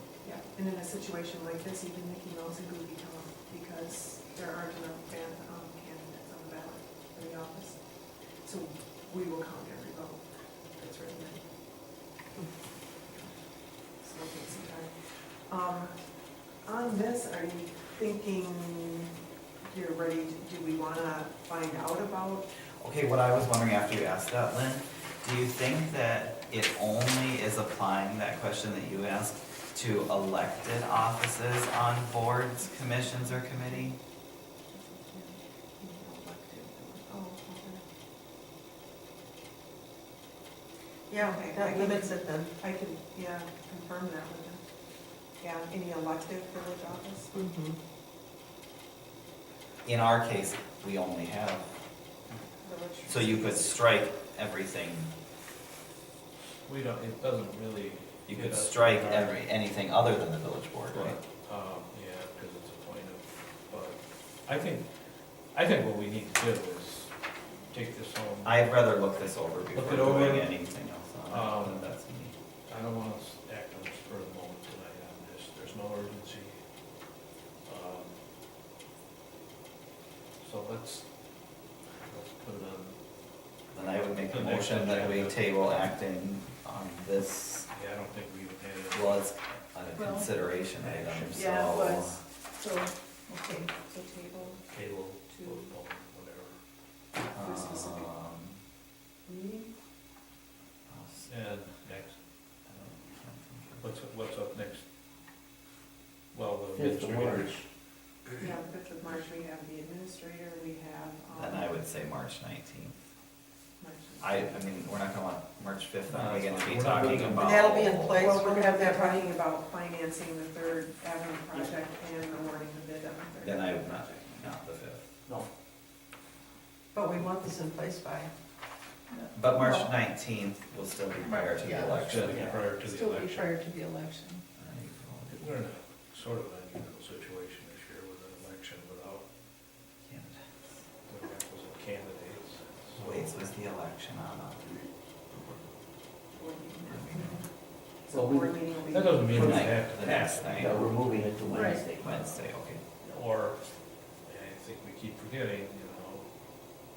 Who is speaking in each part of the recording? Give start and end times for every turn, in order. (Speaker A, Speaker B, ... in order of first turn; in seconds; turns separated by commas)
Speaker A: 0.2-7.9, Speaker A: 8.4-10.2, Speaker A: 10.8-11.4, Speaker A: 14.0-15.9, Speaker A: 16.6-22.5, Speaker B: 22.8-34.0, Speaker A: 34.7-37.8, Speaker C: 41.1-42.5, Speaker A: 41.2-44.6, Speaker A: 45.4-47.3, Speaker C: 47.3-47.8, Speaker B: 49.9-51.7, Speaker A: 52.6-53.7, Speaker B: 53.0-55.1, Speaker D: 56.7-59.4, Speaker B: 58.3-61.2, Speaker D: 60.9-64.9, Speaker D: 65.5-67.1, Speaker D: 67.7-68.6, Speaker B: 68.4-72.3, Speaker D: 69.8-70.5, Speaker D: 71.3-71.8, Speaker D: 72.7-76.6, Speaker D: 77.7-78.2, Speaker D: 80.4-81.1, Speaker D: 82.0-83.0, Speaker B: 83.7-87.7, Speaker D: 84.3-85.6, Speaker D: 87.7-89.2, Speaker B: 88.9-92.2, Speaker E: 90.0-90.3, Speaker D: 90.8-91.6, Speaker E: 91.3-93.7, Speaker A: 93.9-94.7, Speaker D: 94.6-96.6, Speaker A: 95.3-95.7, Speaker A: 97.2-98.1, Speaker B: 97.3-98.6, Speaker A: 99.3-99.7, Speaker B: 100.9-101.3, Speaker D: 101.3-102.2, Speaker B: 102.7-103.8, Speaker D: 103.8-104.9, Speaker D: 106.3-107.6, Speaker F: 106.8-107.6, Speaker A: 108.4-111.8, Speaker B: 111.3-113.0, Speaker A: 113.8-114.6, Speaker B: 114.2-118.3, Speaker D: 116.1-117.8, Speaker C: 117.4-119.4, Speaker A: 118.1-124.2, Speaker B: 123.4-125.1, Speaker C: 126.9-128.3, Speaker E: 129.1-129.9, Speaker B: 129.3-132.5, Speaker E: 131.2-132.0, Speaker D: 131.8-133.6, Speaker F: 132.2-132.7, Speaker E: 132.8-134.4, Speaker B: 134.6-135.6, Speaker D: 135.3-139.3, Speaker B: 140.1-140.3, Speaker D: 141.1-143.5, Speaker B: 143.0-144.7, Speaker A: 146.3-147.4, Speaker B: 146.8-147.3, Speaker A: 148.1-149.8, Speaker F: 148.1-148.6, Speaker D: 148.9-151.3, Speaker B: 149.3-151.0, Speaker F: 150.0-152.2, Speaker E: 151.5-151.9, Speaker B: 151.8-152.8, Speaker D: 153.0-156.3